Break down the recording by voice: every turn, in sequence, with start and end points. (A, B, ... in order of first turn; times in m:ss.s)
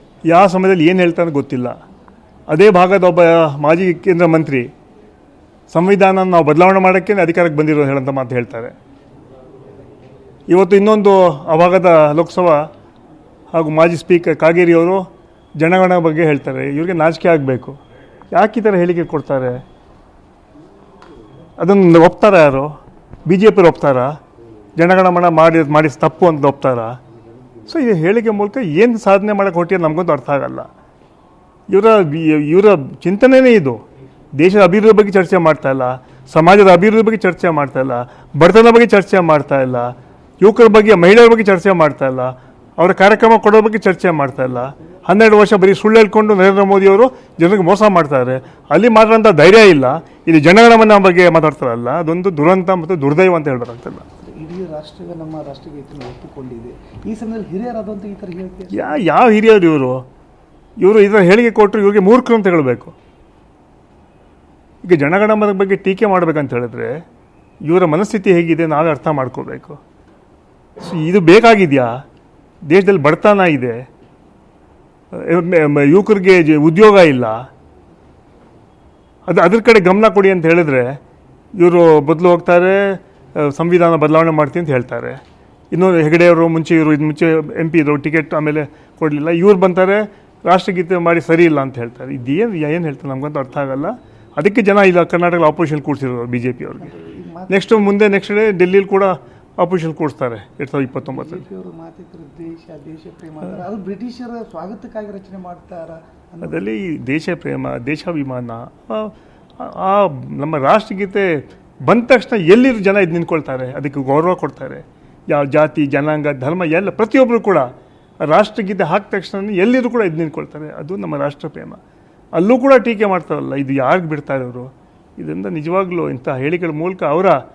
0:00.3-0:01.8 A
0:02.5-0:04.7 A
0:05.7-0:08.8 A
0:10.5-0:12.7 A
0:13.5-0:17.8 A
0:18.3-0:19.6 A
0:21.6-0:24.2 A
0:24.8-0:27.0 A
0:27.7-0:30.7 A
0:31.7-0:33.8 A
0:34.4-0:54.1 A
0:54.2-0:59.0 B
0:58.7-1:00.1 A
1:00.8-1:03.0 A
1:04.8-1:07.0 A
1:07.6-1:09.8 A
1:10.8-1:12.0 A
1:12.7-1:13.9 A
1:15.1-1:17.5 A
1:19.3-1:21.0 A
1:21.6-1:37.0 A
1:36.8-1:38.0 B
1:37.5-1:41.5 A
1:40.9-1:46.6 B
1:46.4-1:57.7 A
1:58.2-2:01.8 A
2:02.4-2:07.4 A